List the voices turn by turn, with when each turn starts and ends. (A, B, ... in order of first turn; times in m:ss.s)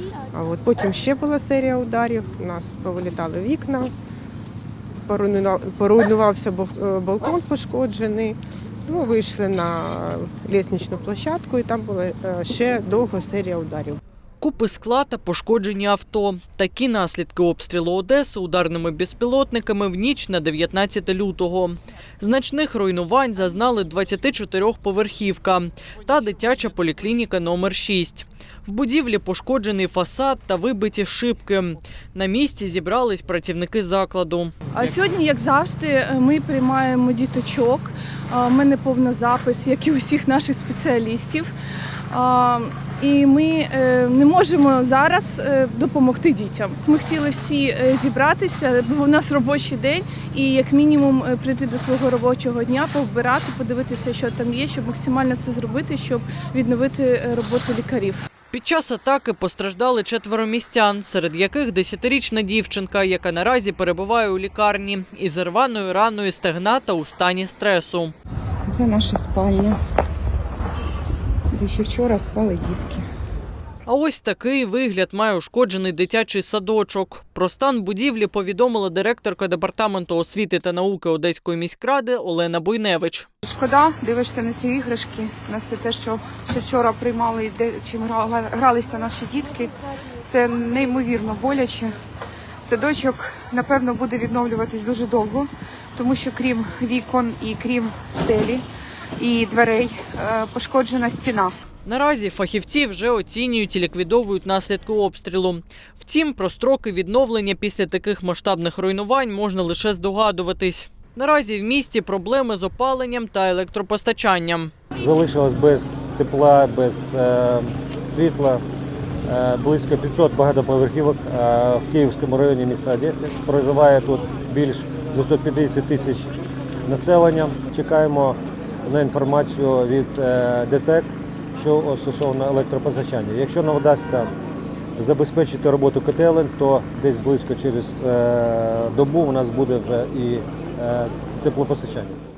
0:00.3-0:03.9 A
0:05.0-0:14.0 A
0:14.4-0:35.0 B
0:34.7-0:41.5 C
0:42.1-0:58.3 C
0:58.5-1:08.1 B
1:08.7-1:09.8 D
1:11.5-1:13.1 D
1:13.9-1:23.3 B
1:23.4-1:29.7 D
1:30.2-1:31.9 D
1:32.6-1:38.6 D
1:39.2-1:41.5 D
1:41.8-1:54.7 B
1:55.0-1:58.6 E
1:59.3-2:06.3 E
2:06.8-2:14.3 E
2:15.0-2:22.2 E